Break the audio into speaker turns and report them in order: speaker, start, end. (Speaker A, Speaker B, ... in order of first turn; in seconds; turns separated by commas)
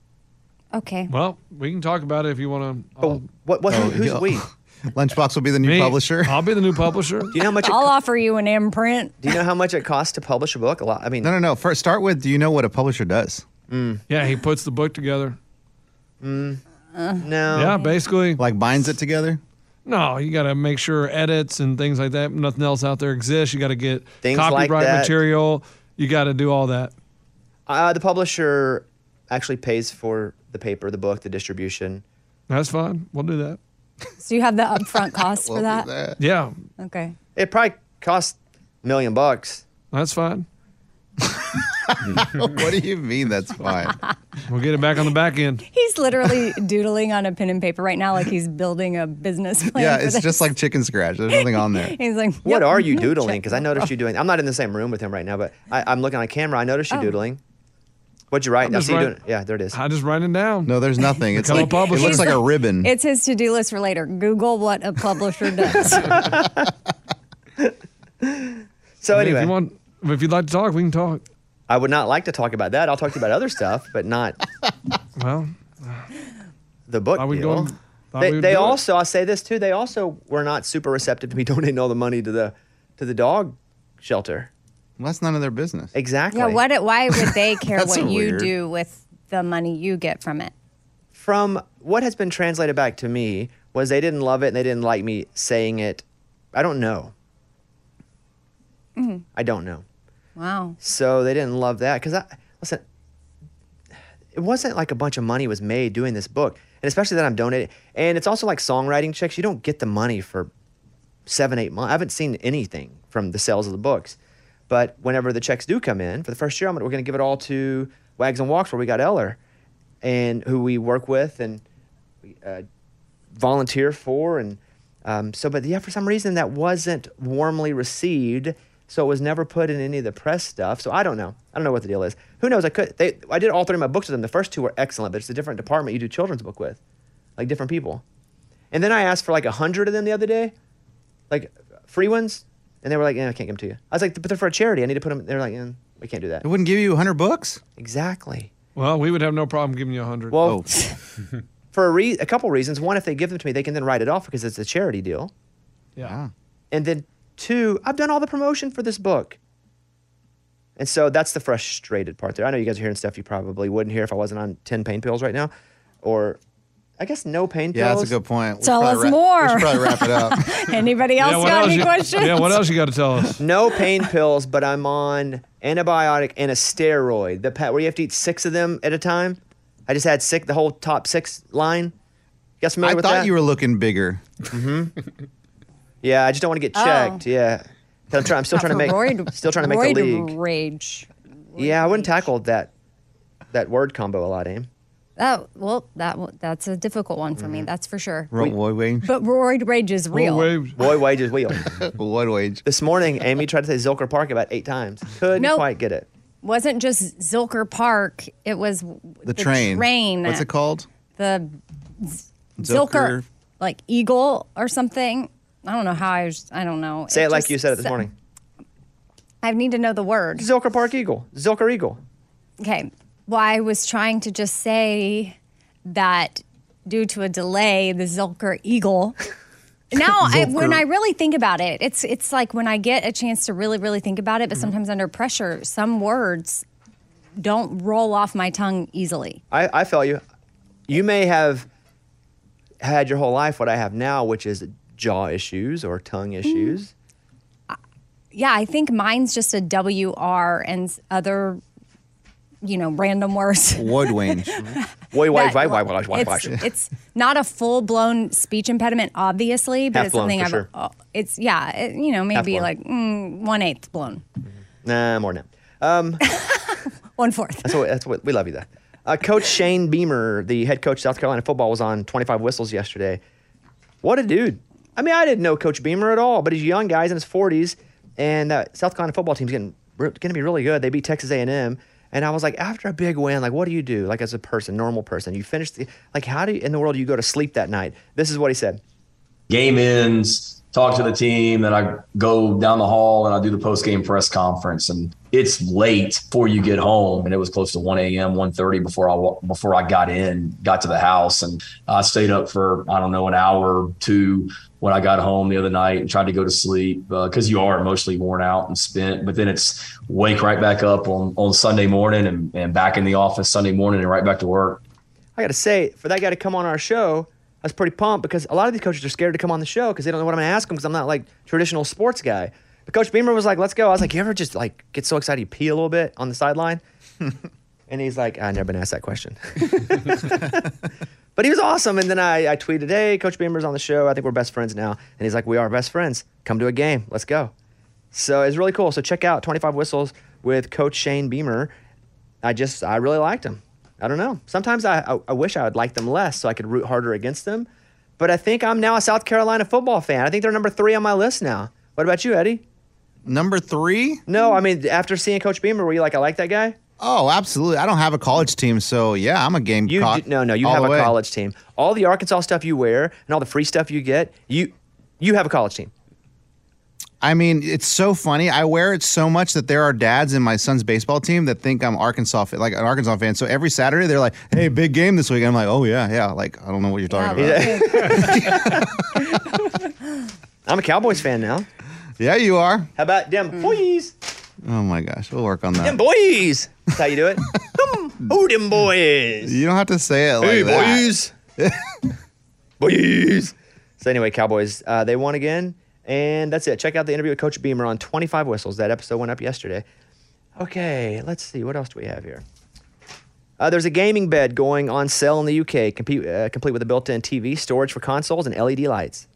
Speaker A: 0.7-1.1, Speaker B: 1.1-3.2, Speaker C: 3.0-4.5, Speaker D: 3.7-6.4, Speaker B: 5.6-7.3, Speaker C: 7.3-7.9, Speaker A: 7.6-9.2, Speaker C: 9.2-11.3, Speaker D: 11.2-13.4, Speaker C: 13.7-14.0, Speaker B: 14.1-15.4, Speaker C: 16.2-16.6, Speaker A: 17.0-17.9, Speaker C: 17.2-17.8, Speaker B: 17.5-18.4, Speaker D: 18.4-19.4, Speaker B: 19.9-26.9, Speaker C: 24.2-25.1, Speaker C: 27.7-32.0, Speaker B: 32.5-33.6, Speaker A: 34.2-35.9, Speaker D: 35.2-36.2, Speaker B: 36.2-36.5, Speaker A: 36.8-37.1, Speaker C: 37.4-39.6, Speaker B: 39.9-40.5, Speaker D: 41.4-44.0, Speaker B: 44.5-45.6, Speaker A: 45.7-50.5, Speaker D: 49.7-52.0, Speaker A: 51.3-53.9, Speaker C: 52.4-57.4, Speaker C: 58.3-59.8, Speaker B: 58.6-59.1, Speaker B: 59.7-60.7, Speaker D: 60.7-62.9, Speaker B: 61.4-62.3, Speaker A: 61.5-66.2, Speaker C: 66.1-66.7, Speaker C: 67.6-69.5, Speaker B: 69.1-71.2, Speaker C: 71.7-74.4, Speaker B: 75.2-76.0, Speaker C: 76.9-84.5, Speaker B: 77.2-78.8, Speaker D: 85.0-85.9, Speaker C: 85.9-86.6, Speaker A: 86.3-90.5, Speaker D: 87.1-88.5, Speaker C: 91.1-97.1, Speaker A: 99.0-99.3, Speaker C: 99.3-99.8, Speaker A: 100.4-100.8, Speaker C: 100.8-102.8, Speaker C: 104.3-110.5, Speaker C: 111.3-114.2, Speaker C: 114.7-119.4, Speaker C: 120.0-121.6, Speaker C: 122.3-122.7, Speaker C: 123.3-136.8, Speaker C: 137.4-138.0, Speaker C: 138.7-140.5, Speaker C: 141.3-146.5, Speaker D: 146.4-147.6, Speaker C: 147.8-148.5, Speaker B: 148.8-150.4, Speaker C: 150.3-150.6, Speaker D: 150.4-150.7, Speaker C: 151.7-155.3, Speaker D: 156.0-156.3, Speaker C: 156.7-159.4, Speaker C: 160.8-165.5, Speaker C: 166.0-166.4, Speaker C: 167.0-168.1, Speaker D: 167.7-170.6, Speaker A: 168.6-172.6, Speaker B: 171.2-173.4, Speaker C: 173.4-181.9, Speaker C: 182.6-183.3, Speaker D: 182.8-184.2, Speaker C: 184.5-185.0, Speaker C: 186.0-190.3, Speaker A: 186.8-187.2, Speaker A: 188.5-192.3, Speaker C: 191.6-192.7, Speaker C: 193.5-194.7, Speaker A: 195.2-198.4, Speaker C: 197.4-197.7, Speaker D: 198.3-199.1, Speaker A: 199.0-200.5, Speaker B: 200.1-200.8, Speaker C: 200.8-201.7, Speaker D: 201.7-202.6, Speaker C: 202.7-206.1, Speaker A: 205.4-205.7, Speaker A: 206.4-210.5, Speaker D: 209.2-210.9, Speaker A: 211.2-217.9, Speaker D: 212.6-213.2, Speaker C: 217.1-218.1, Speaker A: 219.4-220.5, Speaker C: 220.4-222.0, Speaker A: 222.6-229.2, Speaker A: 229.9-236.6, Speaker A: 237.4-239.4, Speaker C: 239.5-240.2, Speaker C: 240.9-241.7, Speaker C: 242.8-246.9, Speaker A: 246.5-246.8, Speaker A: 248.3-251.6, Speaker A: 252.6-254.6, Speaker D: 253.8-254.6, Speaker C: 254.6-256.6, Speaker A: 255.3-264.2, Speaker C: 259.9-260.7, Speaker C: 262.3-262.7, Speaker C: 264.8-266.2, Speaker A: 266.4-267.8, Speaker C: 267.6-273.2, Speaker C: 274.0-288.8, Speaker E: 289.5-314.8, Speaker C: 315.4-326.8, Speaker C: 327.9-330.7, Speaker C: 331.4-337.5, Speaker C: 338.1-341.7, Speaker C: 342.4-347.7, Speaker C: 348.2-352.6, Speaker D: 353.2-354.2, Speaker C: 354.3-356.8, Speaker D: 357.0-361.1, Speaker C: 359.9-365.9, Speaker D: 367.2-378.9, Speaker A: 377.1-378.6, Speaker C: 377.3-379.4, Speaker C: 380.7-381.7, Speaker D: 382.2-382.9, Speaker C: 383.0-384.1, Speaker D: 384.6-386.0, Speaker C: 385.8-389.6, Speaker D: 389.4-391.8, Speaker C: 390.4-391.3, Speaker C: 392.8-399.9, Speaker C: 400.6-402.4, Speaker C: 403.6-409.3